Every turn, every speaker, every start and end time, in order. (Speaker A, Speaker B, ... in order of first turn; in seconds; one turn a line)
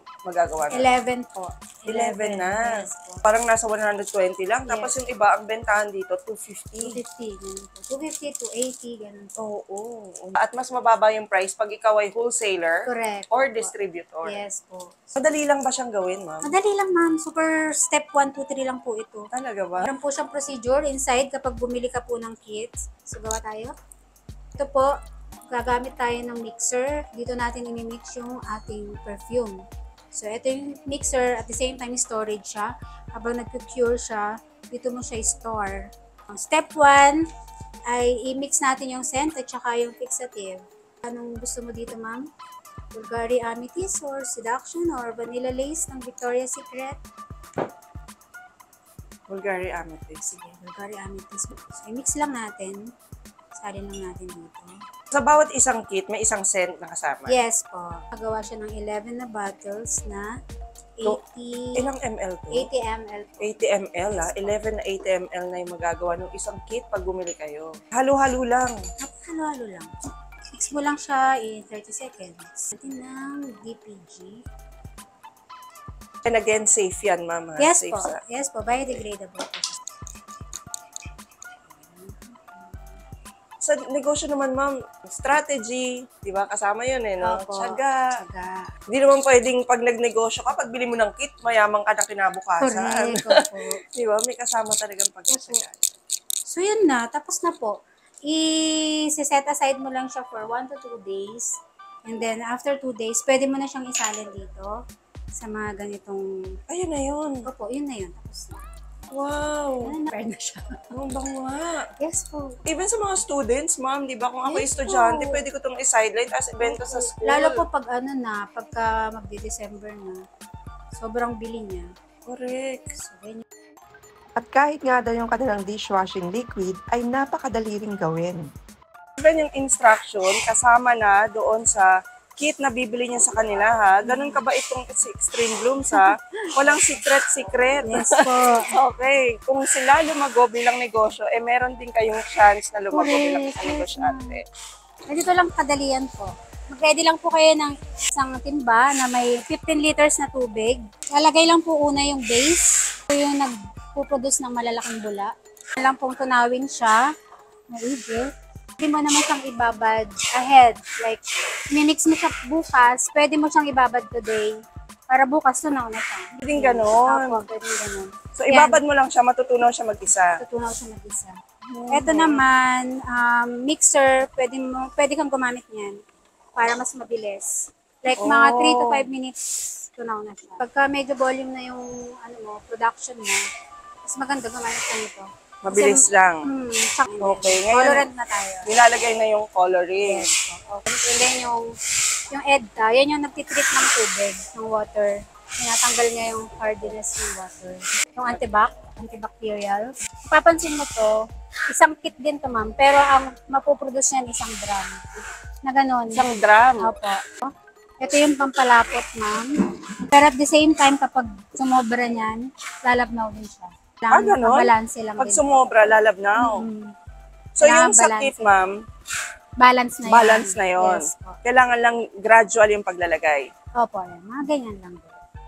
Speaker A: 0.2-0.9
Speaker B: 0.7-3.2
Speaker A: 1.9-7.0
Speaker B: 4.7-5.0
Speaker B: 6.8-9.3
Speaker A: 9.4-14.4
Speaker B: 12.9-13.7
Speaker B: 14.2-15.2
Speaker A: 15.2-16.6
Speaker B: 16.4-19.3
Speaker A: 19.3-19.9
Speaker B: 19.8-23.8
Speaker B: 24.6-25.0
Speaker B: 25.5-37.3
Speaker B: 37.9-42.3
Speaker B: 42.9-47.0
Speaker A: 49.3-50.3
Speaker B: 50.2-52.9
Speaker B: 53.5-54.8
Speaker A: 55.1-57.4
Speaker B: 57.3-60.3
Speaker B: 61.0-61.9
Speaker A: 61.8-62.7
Speaker B: 62.5-64.7
Speaker A: 63.4-68.9
Speaker B: 69.0-69.9
Speaker B: 70.5-74.4
Speaker A: 76.2-78.2
Speaker B: 77.6-79.9
Speaker B: 81.7-83.0
Speaker A: 83.6-88.0
Speaker B: 87.2-88.7
Speaker A: 88.9-95.9
Speaker B: 92.6-93.8
Speaker B: 95.3-95.6
Speaker B: 96.5-104.8
Speaker B: 105.3-106.6
Speaker A: 106.7-107.5
Speaker B: 107.5-108.6
Speaker A: 109.1-110.0
Speaker B: 109.8-110.9
Speaker A: 110.9-111.9
Speaker B: 112.0-112.6
Speaker A: 112.7-117.6
Speaker B: 114.5-115.5
Speaker B: 116.6-120.2
Speaker B: 120.9-121.9
Speaker A: 122.3-123.0
Speaker B: 123.0-123.4
Speaker C: 124.3-128.5
Speaker A: 129.2-144.4
Speaker B: 134.0-134.4
Speaker B: 135.9-137.0
Speaker B: 137.8-138.8
Speaker B: 142.9-144.4
Speaker B: 145.1-157.0
Speaker B: 157.7-158.3
Speaker B: 158.8-161.2
Speaker B: 161.7-168.8
Speaker A: 166.4-167.4
Speaker A: 168.3-170.4
Speaker B: 170.4-171.4
Speaker A: 171.7-172.5
Speaker B: 171.9-176.0
Speaker B: 176.6-183.4
Speaker A: 178.2-179.1
Speaker B: 184.1-188.7
Speaker A: 185.6-186.5
Speaker A: 187.2-188.1
Speaker A: 188.7-190.3
Speaker B: 190.0-191.8
Speaker B: 192.3-201.2
Speaker B: 201.7-206.2
Speaker A: 206.1-206.9
Speaker B: 206.8-216.9
Speaker A: 214.1-216.7
Speaker A: 217.6-218.8
Speaker B: 217.6-218.6
Speaker B: 219.6-221.4
Speaker A: 220.1-223.5
Speaker B: 223.8-225.2